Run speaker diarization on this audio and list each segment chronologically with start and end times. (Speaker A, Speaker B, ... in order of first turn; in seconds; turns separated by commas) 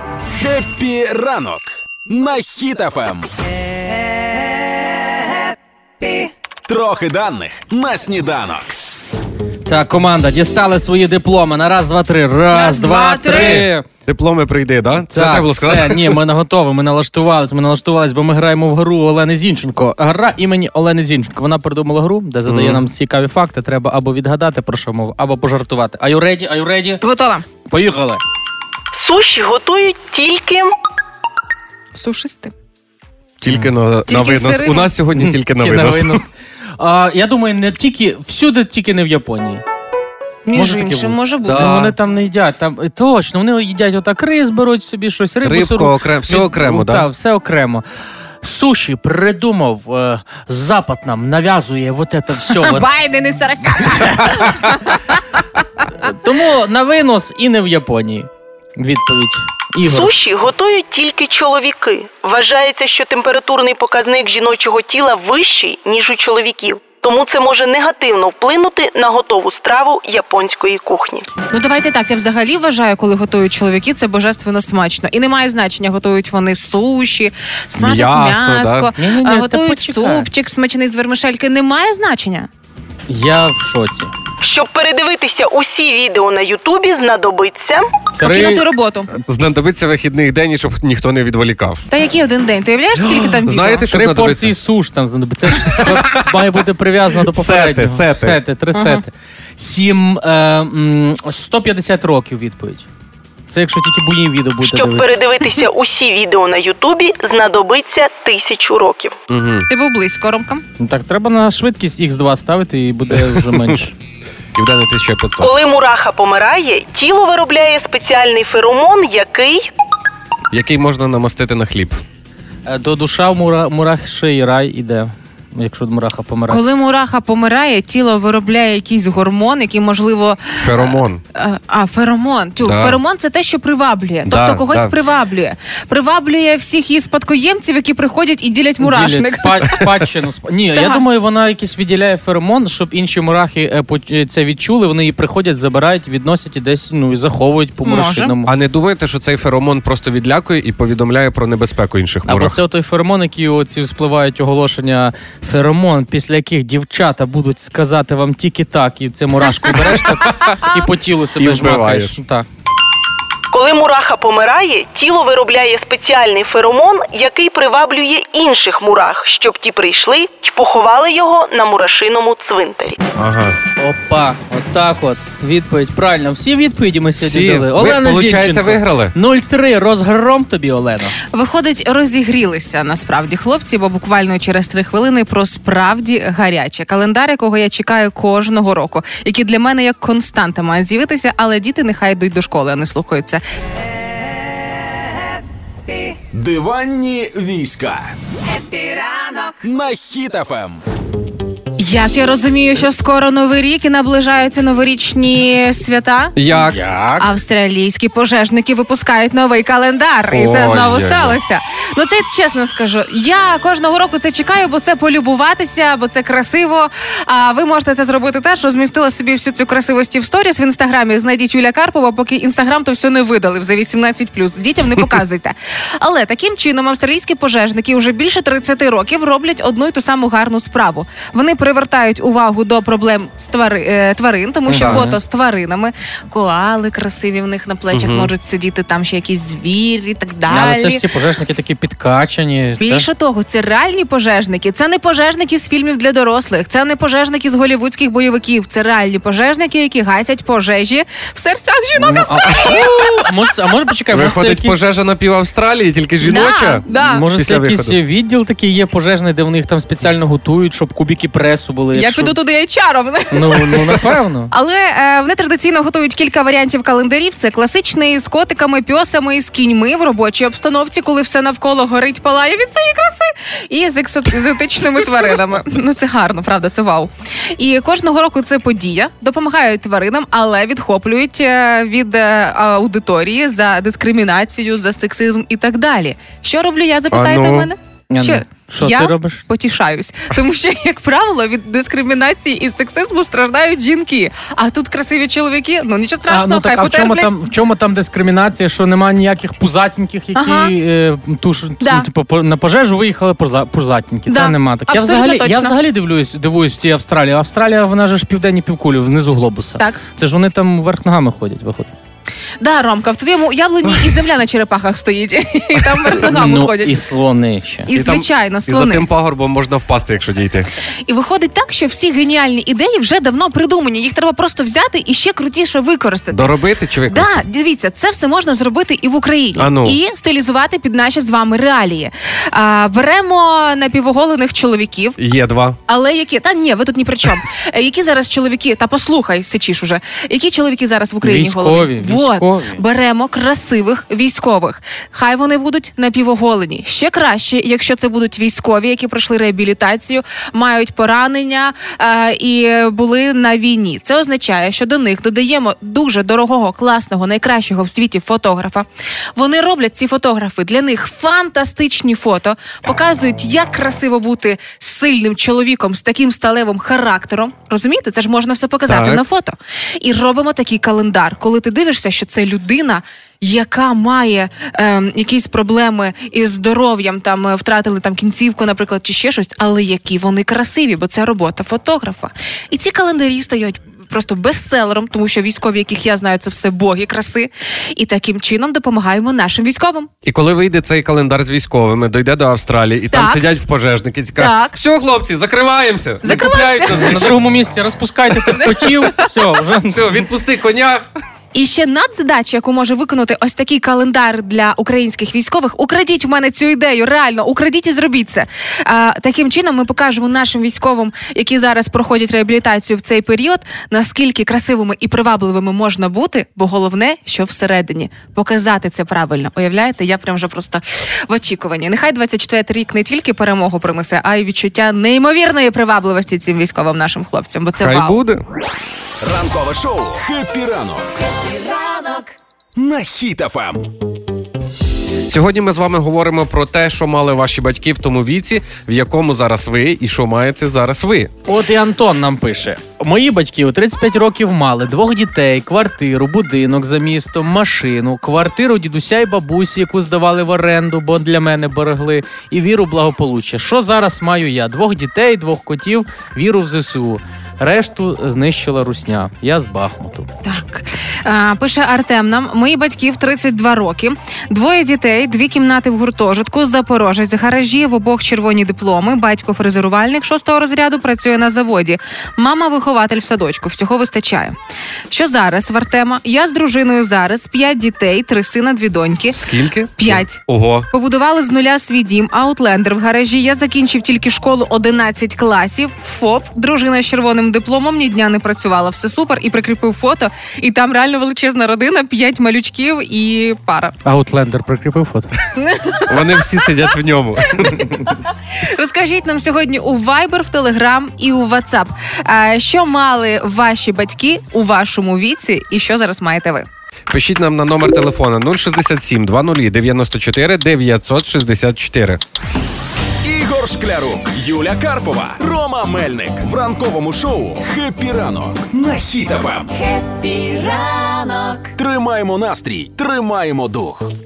Speaker A: 0.3-3.3, Speaker A: 6.7-8.7, Speaker B: 9.6-13.8, Speaker C: 12.5-13.7, Speaker D: 13.2-16.2, Speaker B: 15.1-27.0, Speaker D: 22.4-22.8, Speaker C: 27.0-27.4, Speaker B: 27.7-28.2, Speaker E: 28.9-30.7, Speaker C: 31.9-32.5, Speaker D: 33.4-36.2, Speaker C: 34.1-34.9, Speaker B: 35.1-39.6, Speaker C: 40.5-41.8, Speaker B: 40.5-47.8, Speaker D: 41.6-41.9, Speaker D: 45.4-47.1, Speaker B: 48.4-52.9, Speaker C: 52.5-55.0, Speaker B: 56.0-60.1, Speaker E: 59.8-71.3, Speaker C: 71.5-82.5, Speaker D: 77.8-78.9, Speaker B: 79.0-80.3, Speaker B: 83.1-84.1, Speaker E: 84.4-88.0, Speaker B: 88.2-88.6, Speaker C: 88.2-89.1, Speaker D: 89.2-91.8, Speaker C: 91.9-93.9, Speaker D: 93.0-94.5, Speaker B: 93.9-102.9, Speaker D: 95.6-96.3, Speaker D: 97.2-98.4, Speaker C: 98.7-99.0, Speaker B: 103.5-105.2, Speaker E: 104.6-109.2, Speaker D: 109.3-109.7, Speaker C: 109.7-110.6, Speaker B: 110.8-113.9, Speaker D: 113.1-113.8, Speaker D: 114.5-115.5, Speaker E: 115.4-119.7, Speaker D: 120.5-122.0, Speaker B: 122.7-126.6, Speaker C: 126.5-139.8, Speaker D: 130.6-131.2, Speaker D: 132.6-133.0, Speaker D: 134.2-134.9, Speaker B: 138.8-148.5, Speaker C: 140.7-141.0, Speaker C: 147.8-148.3, Speaker D: 148.4-152.6, Speaker B: 152.2-162.4, Speaker D: 159.7-160.7, Speaker D: 161.4-162.2, Speaker E: 163.5-173.0, Speaker D: 173.2-173.6, Speaker B: 173.8-181.2, Speaker D: 177.2-179.1, Speaker C: 181.3-193.4, Speaker A: 196.3-198.1, Speaker E: 198.7-199.5, Speaker A: 199.6-200.8, Speaker C: 201.8-206.3, Speaker D: 206.3-206.8, Speaker B: 206.7-207.3, Speaker C: 207.2-241.0, Speaker D: 210.3-211.4, Speaker B: 234.7-235.2, Speaker D: 234.7-235.0, Speaker D: 237.9-238.3, Speaker B: 240.5-243.1, Speaker C: 242.8-253.1, Speaker B: 252.0-254.8, Speaker D: 254.1-257.9, Speaker C: 256.2-257.2, Speaker B: 256.9-262.3, Speaker C: 261.9-263.9, Speaker B: 263.3-264.5, Speaker C: 264.5-297.3, Speaker D: 287.1-287.7, Speaker B: 288.1-289.4, Speaker B: 296.3-311.9, Speaker C: 300.3-300.7, Speaker C: 301.8-302.1, Speaker C: 304.3-305.7, Speaker C: 312.6-317.0, Speaker B: 316.2-317.9, Speaker C: 317.9-319.1, Speaker D: 317.9-320.7, Speaker C: 321.1-326.5, Speaker D: 326.3-327.4, Speaker C: 327.1-335.2, Speaker D: 329.6-330.0, Speaker D: 335.2-335.8, Speaker C: 335.9-390.1, Speaker B: 341.2-342.8, Speaker D: 368.9-369.2, Speaker D: 390.2-397.5, Speaker C: 393.1-393.4, Speaker C: 394.4-394.8, Speaker C: 396.2-397.3, Speaker B: 396.9-400.2, Speaker C: 398.4-399.2, Speaker D: 399.9-401.0, Speaker C: 401.5-428.2, Speaker D: 427.8-428.4, Speaker A: 429.2-431.1, Speaker E: 431.2-432.3, Speaker A: 432.8-433.9, Speaker D: 435.3-441.3, Speaker B: 441.5-460.3, Speaker C: 460.4-474.6, Speaker C: 475.1-479.4, Speaker D: 479.3-480.9, Speaker C: 480.0-493.9, Speaker B: 494.0-495.4, Speaker C: 495.6-496.8, Speaker D: 496.1-498.0, Speaker C: 497.5-506.7, Speaker D: 507.1-512.2, Speaker A: 513.2-519.7, Speaker E: 519.7-521.7, Speaker A: 521.8-524.1